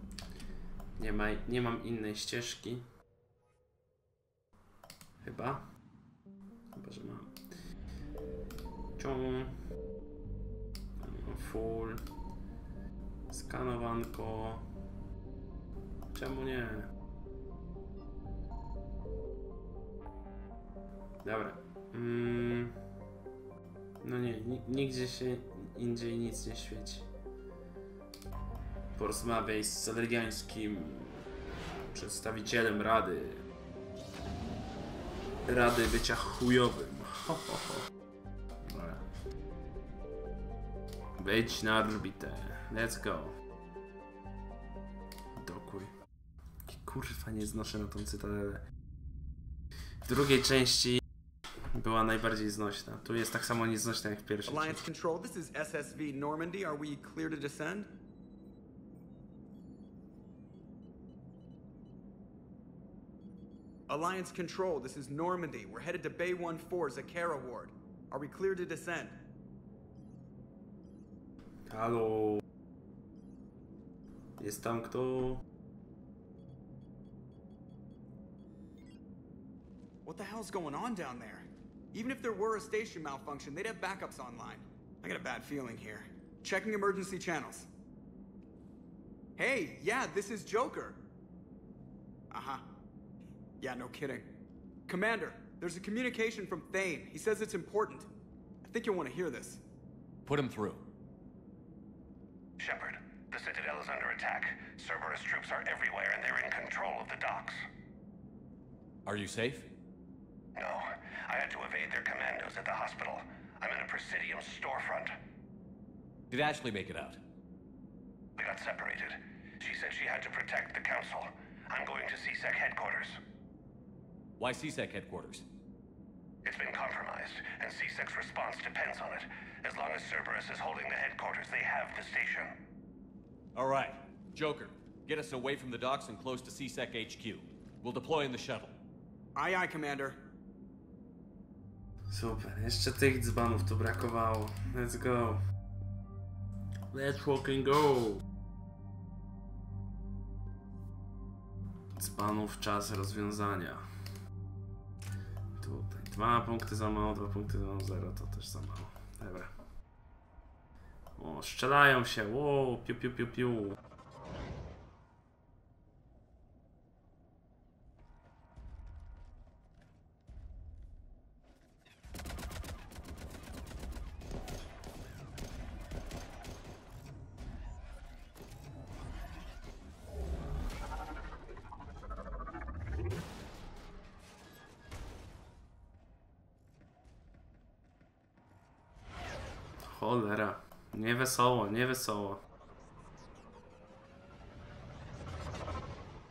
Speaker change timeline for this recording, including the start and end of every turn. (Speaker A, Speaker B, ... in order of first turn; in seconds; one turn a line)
Speaker A: 1.0-2.9
Speaker A: 5.2-5.7
Speaker A: 6.7-7.4
Speaker A: 9.0-9.6
Speaker A: 11.0-12.0
Speaker A: 13.3-14.7
Speaker A: 16.1-16.9
Speaker A: 21.2-22.8
Speaker A: 24.0-27.1
Speaker A: 29.0-31.3
Speaker A: 31.9-33.5
Speaker A: 35.5-37.9
Speaker A: 38.6-39.0
Speaker A: 41.2-43.4
Speaker A: 45.4-45.9
Speaker A: 46.7-48.6
Speaker A: 50.0-51.0
Speaker A: 51.8-54.8
Speaker B: 54.5-57.9
Speaker B: 63.9-69.2
Speaker A: 71.7-72.4
Speaker A: 74.4-75.4
Speaker B: 80.0-87.7
Speaker B: 89.4-91.0
Speaker B: 92.3-92.6
Speaker B: 93.6-94.3
Speaker B: 94.9-98.1
Speaker B: 98.6-99.6
Speaker C: 100.3-100.8
Speaker D: 102.6-107.6
Speaker C: 109.1-109.7
Speaker D: 110.6-115.2
Speaker C: 116.3-117.2
Speaker D: 118.4-123.2
Speaker C: 124.4-125.5
Speaker D: 126.5-132.5
Speaker C: 133.6-138.8
Speaker B: 139.3-140.2
Speaker A: 142.1-145.4
Speaker A: 146.9-148.2
Speaker A: 152.0-153.8
Speaker A: 155.6-159.5
Speaker A: 161.2-163.8
Speaker A: 189.8-192.4